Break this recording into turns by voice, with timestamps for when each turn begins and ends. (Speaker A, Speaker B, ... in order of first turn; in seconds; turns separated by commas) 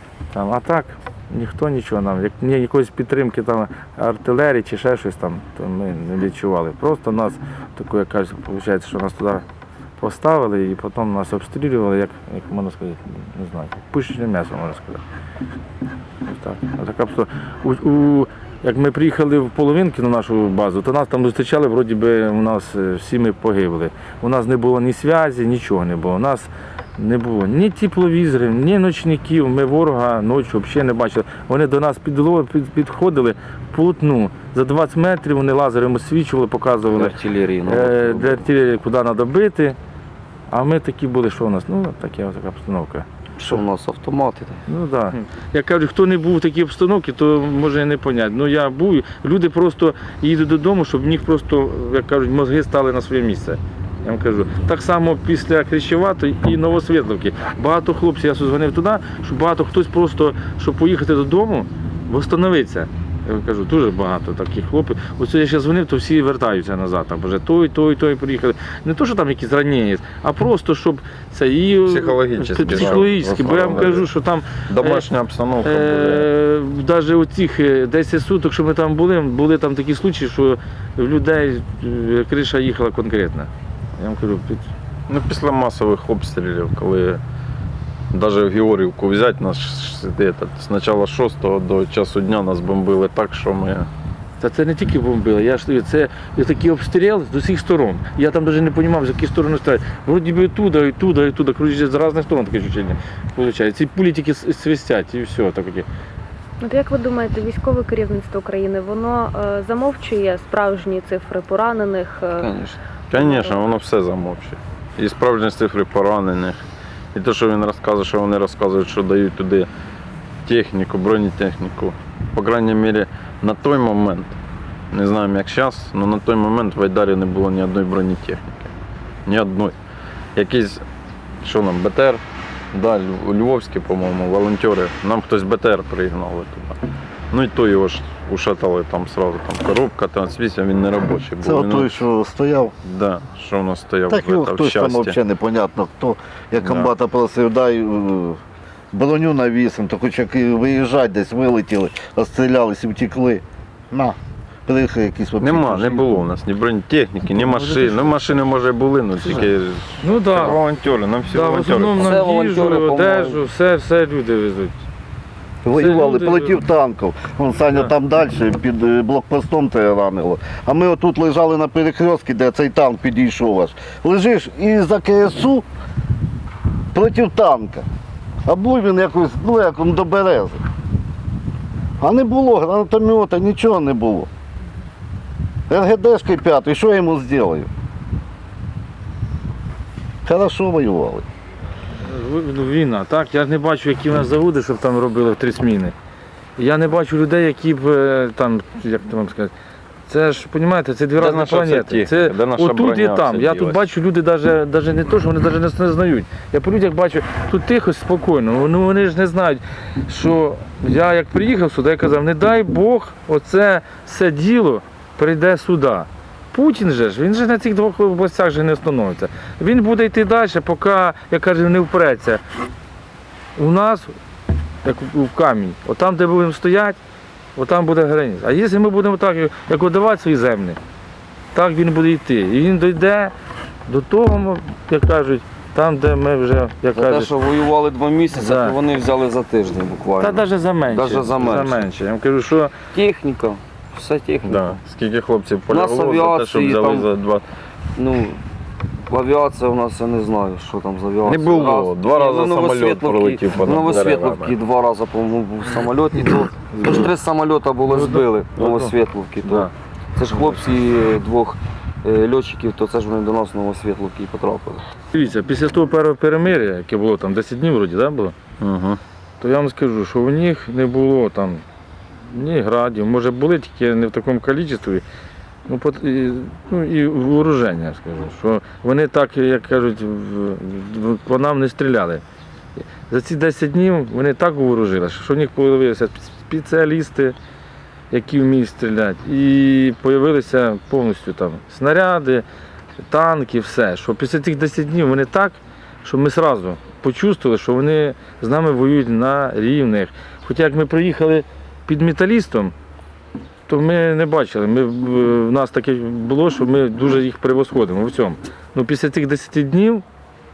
Speaker A: 0.3-9.4, Speaker A: 10.0-15.0, Speaker A: 16.2-37.1, Speaker B: 36.9-38.4, Speaker A: 37.6-39.8, Speaker A: 40.5-43.1, Speaker B: 43.4-44.6, Speaker A: 44.7-75.1, Speaker C: 71.9-74.1, Speaker C: 74.7-76.3, Speaker A: 75.6-84.7, Speaker C: 85.1-87.2, Speaker C: 88.1-93.9, Speaker A: 94.4-105.9, Speaker D: 106.6-112.4, Speaker B: 112.4-112.8, Speaker C: 113.1-116.6, Speaker C: 117.2-119.7, Speaker C: 120.5-124.4, Speaker C: 124.9-128.7, Speaker C: 129.3-129.8, Speaker C: 130.4-130.8, Speaker C: 131.4-132.2, Speaker C: 132.7-136.8, Speaker C: 137.3-141.9, Speaker E: 141.4-142.7, Speaker C: 142.8-145.2, Speaker E: 144.1-148.4, Speaker C: 146.6-146.9, Speaker E: 148.9-156.1, Speaker C: 155.4-162.2, Speaker A: 157.4-158.2, Speaker A: 160.0-160.6, Speaker A: 161.3-164.8, Speaker B: 162.0-163.4, Speaker E: 165.6-175.6, Speaker A: 165.7-166.6, Speaker E: 176.9-177.9, Speaker E: 178.5-180.6, Speaker E: 182.0-184.3, Speaker E: 185.7-187.7, Speaker E: 190.2-191.2, Speaker A: 192.0-195.9, Speaker A: 196.6-199.5, Speaker A: 200.1-222.4, Speaker C: 201.2-203.9, Speaker A: 223.6-224.1, Speaker A: 224.8-227.0, Speaker A: 227.6-230.8, Speaker A: 231.5-233.3, Speaker A: 233.9-237.3, Speaker B: 236.9-241.9, Speaker A: 238.3-238.8, Speaker A: 240.2-242.7, Speaker B: 242.9-244.8, Speaker C: 244.4-247.5, Speaker B: 245.7-247.1, Speaker B: 247.9-248.4, Speaker B: 249.1-264.9, Speaker C: 251.2-254.6, Speaker A: 257.9-258.9, Speaker A: 259.4-259.7, Speaker A: 265.1-268.4, Speaker C: 268.6-269.0, Speaker A: 269.4-271.6, Speaker A: 272.3-275.0, Speaker A: 275.7-282.2, Speaker A: 282.8-287.4, Speaker A: 288.1-292.4, Speaker A: 293.0-302.7, Speaker A: 303.7-310.1